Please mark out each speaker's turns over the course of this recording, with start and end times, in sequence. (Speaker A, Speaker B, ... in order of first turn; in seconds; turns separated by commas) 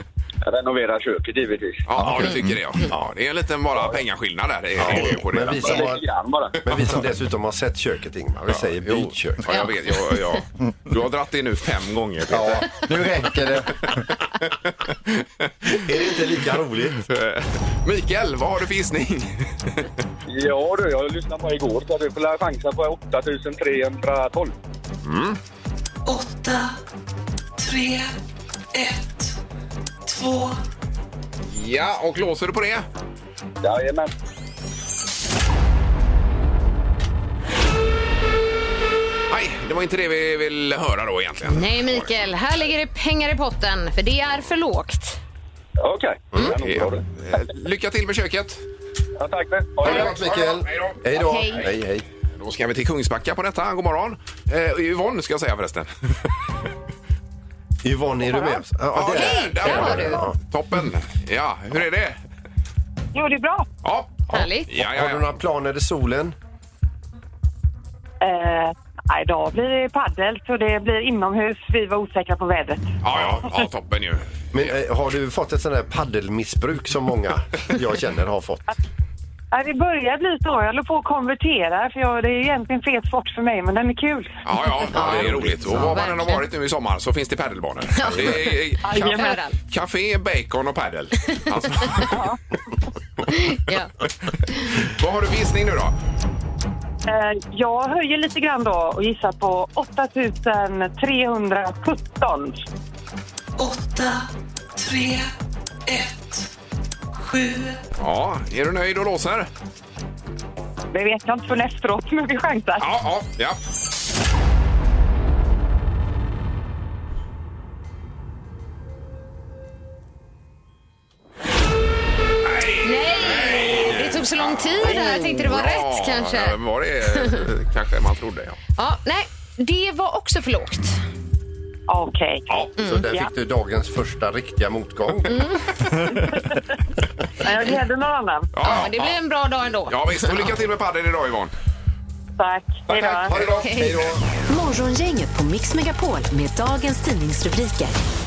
Speaker A: 0.4-1.8, Speaker B: 1.9-6.0, Speaker C: 2.0-2.6, Speaker D: 4.8-6.1, Speaker A: 5.6-6.6, Speaker D: 6.6-9.6, Speaker B: 8.5-12.7, Speaker C: 12.3-14.0, Speaker D: 15.7-17.1, Speaker B: 17.1-19.9, Speaker A: 20.3-24.5, Speaker B: 25.0-25.4, Speaker E: 26.1-26.8, Speaker E: 27.6-28.2, Speaker E: 28.7-29.3, Speaker E: 30.1-30.6, Speaker B: 31.5-32.9, Speaker A: 33.6-34.1, Speaker B: 39.3-42.1, Speaker F: 41.4-45.2, Speaker A: 45.8-47.4, Speaker B: 46.5-48.6, Speaker A: 49.2-50.1, Speaker D: 49.8-52.0, Speaker B: 49.8-51.7, Speaker F: 51.1-51.7, Speaker B: 52.4-55.9, Speaker D: 57.8-60.4, Speaker B: 58.9-62.2, Speaker F: 59.1-60.2, Speaker G: 63.1-63.7, Speaker B: 63.8-65.3, Speaker D: 64.3-66.3, Speaker F: 64.3-64.7, Speaker G: 68.2-72.9, Speaker B: 73.0-74.8, Speaker D: 73.1-73.5, Speaker D: 74.5-78.7, Speaker G: 79.5-84.4, Speaker B: 84.4-92.2, Speaker F: 84.9-86.5, Speaker D: 84.9-86.1, Speaker F: 88.0-89.5, Speaker D: 88.1-88.4, Speaker G: 88.8-89.4, Speaker G: 92.0-92.4, Speaker F: 93.3-93.9, Speaker B: 94.8-96.0, Speaker G: 97.1-102.6, Speaker E: 103.6-105.3, Speaker E: 105.9-106.5, Speaker E: 107.2-107.8, Speaker B: 108.0-109.5, Speaker G: 110.9-112.9, Speaker B: 112.8-113.6, Speaker B: 122.5-128.6, Speaker F: 122.8-126.6, Speaker F: 128.8-131.0, Speaker G: 131.9-132.5, Speaker D: 132.6-135.4, Speaker G: 133.1-133.3, Speaker F: 135.3-135.6, Speaker G: 137.4-138.5, Speaker B: 138.5-139.2, Speaker F: 138.7-140.5, Speaker B: 139.9-141.5, Speaker G: 142.4-143.4, Speaker D: 142.9-144.3, Speaker B: 142.9-144.1, Speaker F: 143.6-144.0, Speaker H: 144.5-148.0